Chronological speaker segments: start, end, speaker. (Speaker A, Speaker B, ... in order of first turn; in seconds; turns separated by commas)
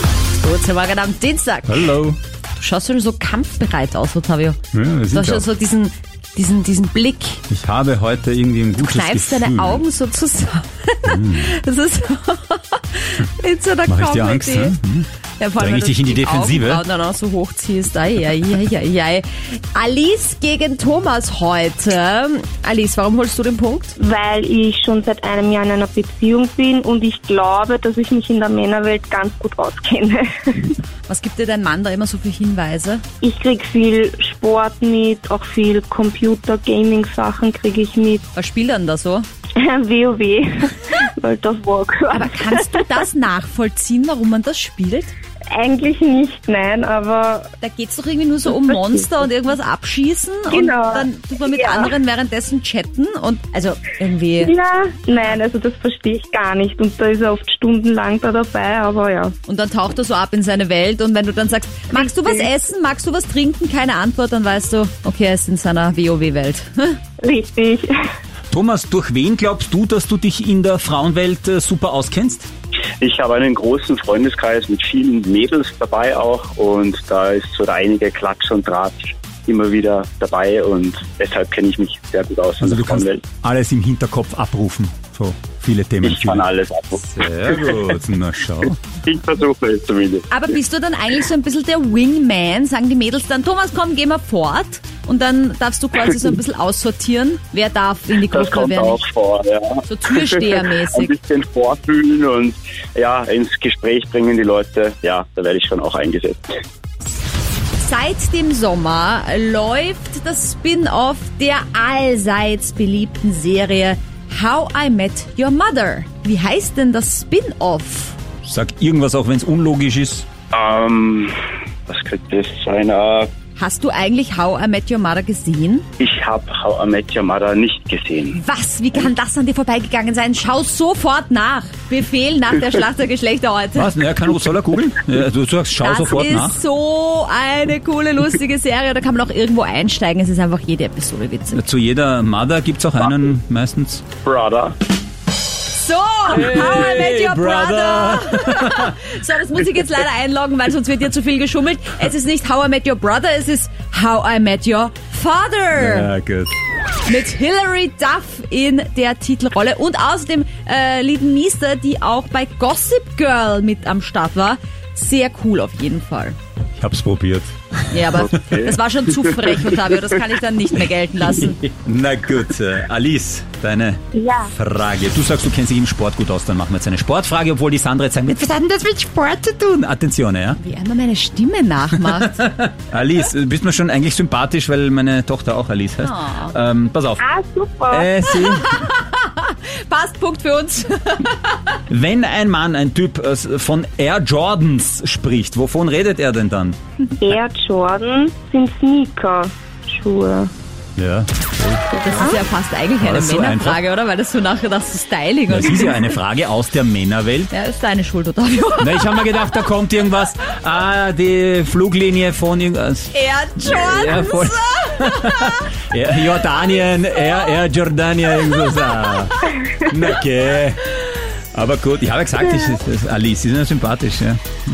Speaker A: 0.4-1.9, Speaker B: 1.7-2.2, Speaker A: 2.5-4.6, Speaker B: 4.7-5.5, Speaker A: 5.1-7.4, Speaker B: 7.5-9.8, Speaker A: 8.8-14.8, Speaker B: 11.1-11.5, Speaker B: 13.9-15.1, Speaker A: 15.4-24.0, Speaker B: 15.6-16.8, Speaker C: 24.0-30.8, Speaker A: 31.1-33.0, Speaker C: 33.2-38.2, Speaker A: 38.4-39.3, Speaker C: 39.6-43.0, Speaker A: 42.1-45.1, Speaker C: 45.5-47.5, Speaker A: 47.6-54.5, Speaker C: 48.5-49.1, Speaker C: 50.5-51.9, Speaker C: 54.4-59.3, Speaker A: 59.5-67.0, Speaker C: 61.9-62.5, Speaker C: 67.2-67.9, Speaker B: 68.5-72.5, Speaker D: 73.0-83.2, Speaker B: 82.6-86.4, Speaker D: 86.0-88.0, Speaker B: 87.1-88.8, Speaker D: 89.0-90.3, Speaker A: 90.3-99.0, Speaker D: 98.2-106.5, Speaker A: 99.9-101.1, Speaker A: 107.8-118.2, Speaker B: 118.4-120.3, Speaker D: 120.5-121.3, Speaker D: 121.9-123.3, Speaker A: 123.6-125.8, Speaker D: 126.0-128.4, Speaker A: 128.3-133.9, Speaker B: 133.8-136.6, Speaker A: 135.8-141.6, Speaker B: 141.5-144.1, Speaker D: 144.2-144.8, Speaker A: 145.7-156.1, Speaker B: 146.3-149.0, Speaker B: 155.8-156.5, Speaker A: 157.1-166.4, Speaker B: 166.8-168.2, Speaker A: 167.9-171.6, Speaker D: 168.2-169.4, Speaker B: 171.3-180.6, Speaker C: 174.2-174.5, Speaker A: 180.6-182.5, Speaker B: 182.0-187.2, Speaker A: 186.0-186.6, Speaker C: 187.2-188.1, Speaker B: 187.9-188.7, Speaker A: 188.3-191.8, Speaker B: 191.9-196.8, Speaker C: 197.2-200.5, Speaker B: 201.0-202.4, Speaker A: 201.9-206.2, Speaker C: 202.1-202.4, Speaker B: 203.0-203.8, Speaker B: 205.5-207.5, Speaker A: 207.5-209.0, Speaker B: 208.8-220.8, Speaker A: 213.1-215.6, Speaker A: 217.2-217.6, Speaker A: 218.4-218.8, Speaker B: 221.5-224.4